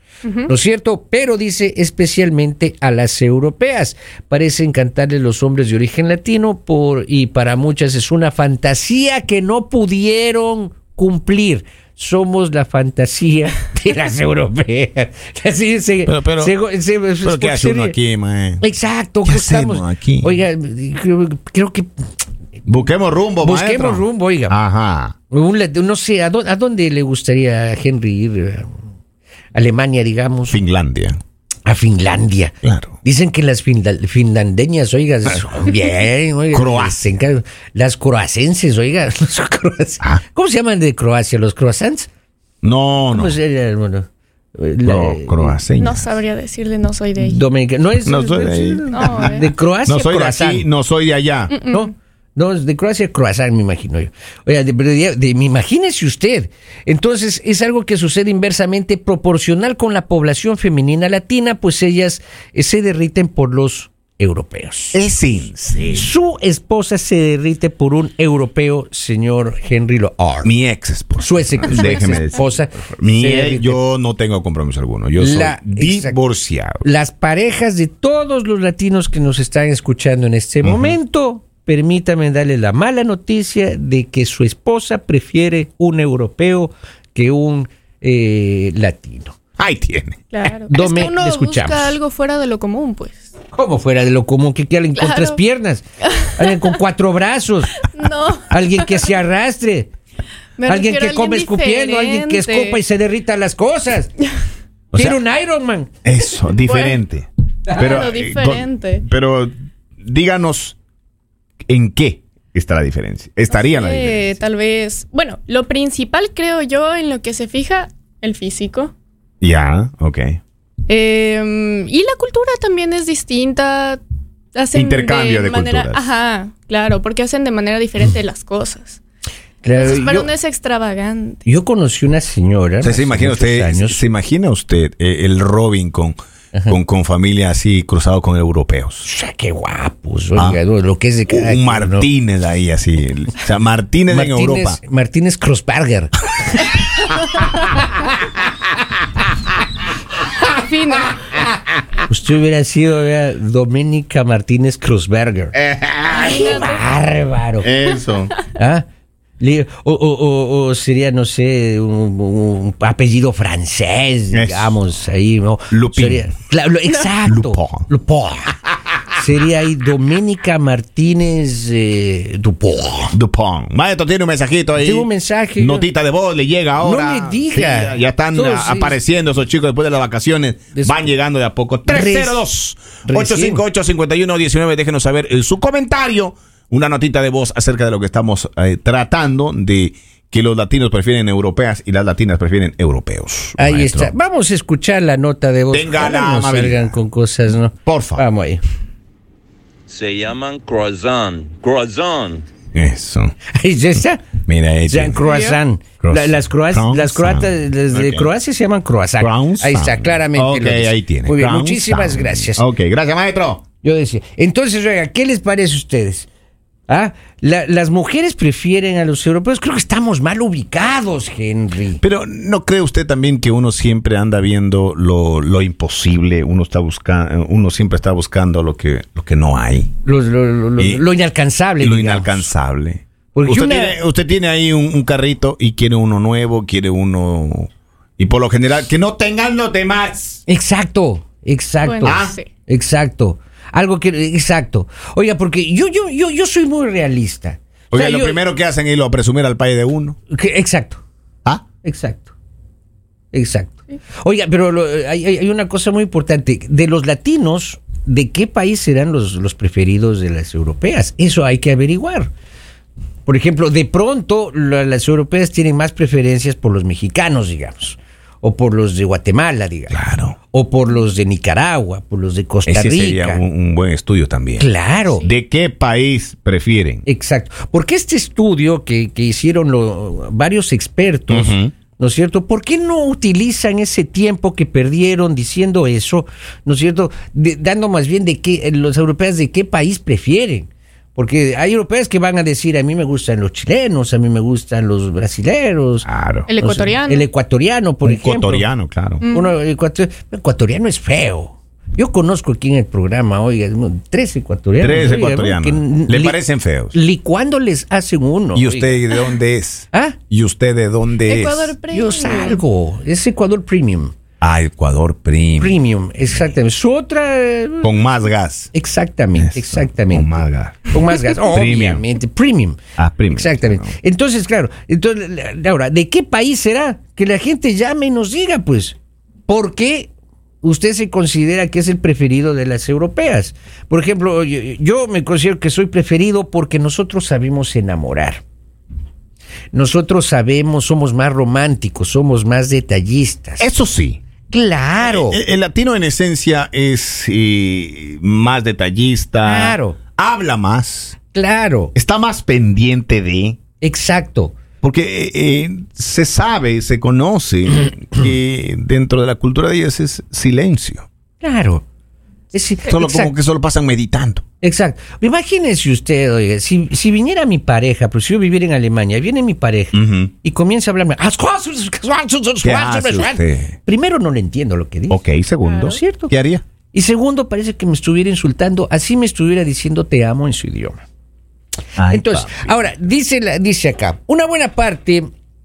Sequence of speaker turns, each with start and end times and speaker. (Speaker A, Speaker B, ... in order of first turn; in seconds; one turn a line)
Speaker A: 0.2-0.5
Speaker B: 0.5-18.0
Speaker C: 16.1-16.6
Speaker C: 17.2-18.6
Speaker B: 18.6-21.9
Speaker C: 19.2-20.4
Speaker C: 22.7-25.1
Speaker B: 23.4-24.6
Speaker B: 25.3-28.8
Speaker B: 29.5-30.6
Speaker C: 30.5-31.2
Speaker B: 31.7-42.1
Speaker C: 32.6-33.0
Speaker C: 36.5-37.1
Speaker C: 42.6-43.4
Speaker B: 43.1-45.6
Speaker C: 44.8-46.1
Speaker A: 45.8-47.4
Speaker B: 47.2-50.7
Speaker C: 48.0-51.6
Speaker A: 48.9-49.5
Speaker A: 51.5-51.9
Speaker B: 51.7-65.0
Speaker C: 64.9-66.1
Speaker B: 65.9-70.5
Speaker C: 70.4-76.9
Speaker B: 71.2-73.8
Speaker B: 75.2-76.2
Speaker B: 76.8-89.4
Speaker C: 80.6-81.0
Speaker C: 89.6-90.2
Speaker A: 90.3-93.3
Speaker B: 90.7-92.0
Speaker B: 93.5-97.8
Speaker A: 95.0-95.4
Speaker A: 96.0-96.6
Speaker A: 97.9-99.1
Speaker B: 98.5-99.9
Speaker A: 100.6-102.8
Speaker B: 100.7-104.1
Speaker C: 104.9-105.2
Speaker B: 104.9-105.9
Speaker C: 106.0-110.8
Speaker A: 106.7-107.0
Speaker A: 107.7-109.0
Speaker C: 111.7-114.4
Speaker A: 113.5-118.9
Speaker C: 119.4-120.4
Speaker A: 120.9-124.0
Speaker A: 124.5-129.0
Speaker C: 124.7-126.0
Speaker B: 129.6-130.3
Speaker A: 129.8-131.4
Speaker B: 131.4-134.0
Speaker C: 132.8-136.2
Speaker C: 136.7-139.1
Speaker B: 139.1-142.1
Speaker C: 141.3-144.8
Speaker B: 144.1-146.8
Speaker A: 150.4-151.4
Speaker B: 152.1-155.6
Speaker C: 155.5-156.7
Speaker B: 156.1-157.7
Speaker A: 156.1-156.8
Speaker C: 157.6-158.3
Speaker B: 158.6-158.9
Speaker B: 159.4-168.6
Speaker C: 164.3-164.8
Speaker C: 165.7-166.3
Speaker C: 167.2-167.9
Speaker B: 169.1-173.2
Speaker C: 173.1-194.1
Speaker B: 174.8-175.9
Speaker B: 176.8-179.0
Speaker B: 180.8-181.1
Speaker B: 181.9-182.5
Speaker B: 183.1-183.6
Speaker B: 193.6-198.6
Speaker C: 195.7-197.0
Speaker C: 197.8-198.2
Speaker D: 199.9-202.5
Speaker C: 202.7-203.3
Speaker B: 203.5-204.2
Speaker C: 204.5-205.3
Speaker B: 204.9-212.6
Speaker A: 205.2-205.6
Speaker C: 206.0-208.3
Speaker C: 209.2-213.6
Speaker B: 213.8-216.3
Speaker B: 216.9-222.0
Speaker C: 222.0-229.9
Speaker B: 230.0-232.5
Speaker C: 230.8-231.0
Speaker C: 231.8-240.4
Speaker B: 233.3-234.0
Speaker B: 240.5-248.4
Speaker A: 241.8-242.5
Speaker C: 242.1-242.4
Speaker C: 247.9-250.2
Speaker B: 250.3-251.0
Speaker B: 251.8-252.3
Speaker B: 253.3-262.3
Speaker B: 263.3-273.4
Speaker C: 269.9-270.4
Speaker C: 272.7-277.1
Speaker B: 274.6-275.3
Speaker B: 277.1-298.7
Speaker C: 281.3-281.7
Speaker C: 296.1-296.5
Speaker A: 296.5-297.3
Speaker C: 298.1-299.2
Speaker A: 299.2-299.6
Speaker B: 299.3-306.4
Speaker C: 304.8-307.0
Speaker B: 306.9-309.0
Speaker C: 308.5-311.8
Speaker B: 309.9-310.2
Speaker A: 311.3-312.6
Speaker B: 311.9-314.1
Speaker C: 314.4-315.8
Speaker B: 315.6-317.9
Speaker C: 317.8-318.7
Speaker B: 318.7-322.8
Speaker C: 319.4-320.9
Speaker C: 321.5-322.0
Speaker C: 323.0-323.9
Speaker B: 323.3-330.1
Speaker B: 330.6-338.4
Speaker B: 339.7-343.7
Speaker C: 343.6-344.2
Speaker B: 344.5-345.4
Speaker C: 345.0-351.2
Speaker B: 349.4-350.0
Speaker B: 351.3-351.9
Speaker C: 351.9-353.6
Speaker B: 353.8-354.6
Speaker C: 354.8-361.1
Speaker B: 361.4-361.9
Speaker B: 362.5-363.3
Speaker C: 362.9-364.4
Speaker B: 364.6-375.2
Speaker C: 369.9-370.3
Speaker C: 372.6-373.8
Speaker C: 375.1-376.6
Speaker B: 375.8-376.3
Speaker B: 376.9-381.1
Speaker C: 382.0-382.9
Speaker B: 382.1-385.3